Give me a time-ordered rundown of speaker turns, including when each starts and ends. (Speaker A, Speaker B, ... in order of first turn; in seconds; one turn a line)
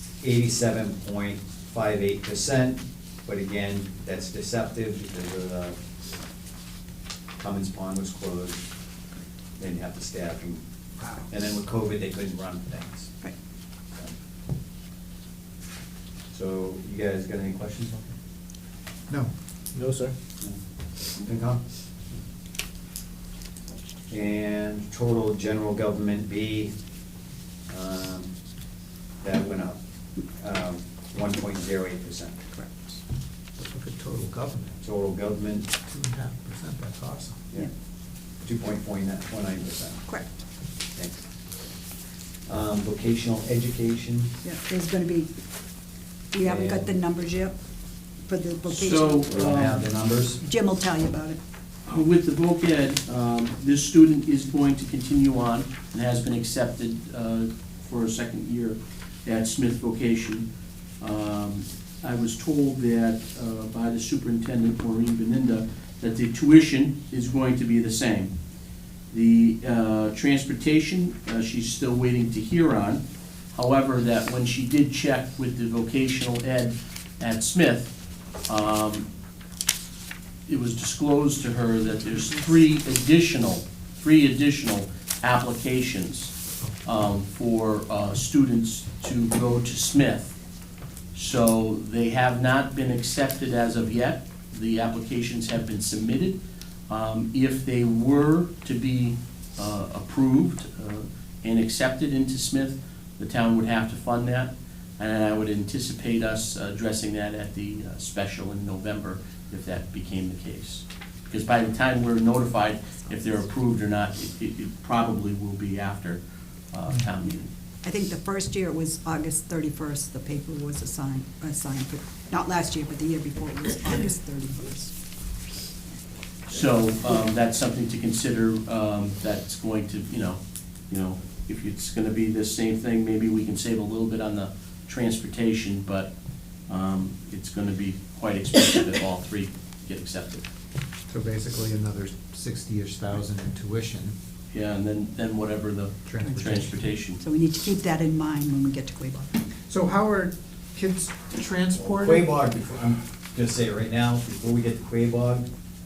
Speaker A: 0.2-5.8
Speaker A: 7.4-8.6
Speaker A: 9.6-10.6
Speaker A: 11.2-13.1
Speaker A: 16.3-18.1
Speaker A: 21.2-21.6
Speaker A: 24.1-26.7
Speaker A: 27.7-28.3
Speaker A: 29.2-29.8
Speaker A: 30.4-32.5
Speaker B: 32.5-33.0
Speaker C: 33.6-34.8
Speaker A: 34.8-35.7
Speaker C: 35.9-37.4
Speaker A: 38.4-40.0
Speaker B: 40.1-40.4
Speaker A: 40.9-41.3
Speaker A: 42.5-44.4
Speaker B: 44.4-45.3
Speaker B: 46.3-47.5
Speaker A: 46.4-46.9
Speaker B: 48.3-49.3
Speaker D: 48.7-49.8
Speaker A: 49.2-50.4
Speaker B: 50.4-51.4
Speaker D: 51.9-60.5
Speaker D: 61.0-68.3
Speaker D: 69.1-73.0
Speaker D: 73.5-77.9
Speaker D: 78.5-79.0
Speaker D: 80.5-90.3
Speaker D: 91.1-96.4
Speaker D: 96.9-116.2
Speaker D: 116.7-117.5
Speaker B: 117.8-124.9
Speaker D: 126.5-136.1
Speaker D: 136.7-140.4
Speaker C: 141.1-144.1
Speaker D: 144.5-147.2
Speaker C: 146.1-146.8
Speaker B: 147.2-149.4
Speaker C: 149.7-152.3
Speaker A: 151.8-155.5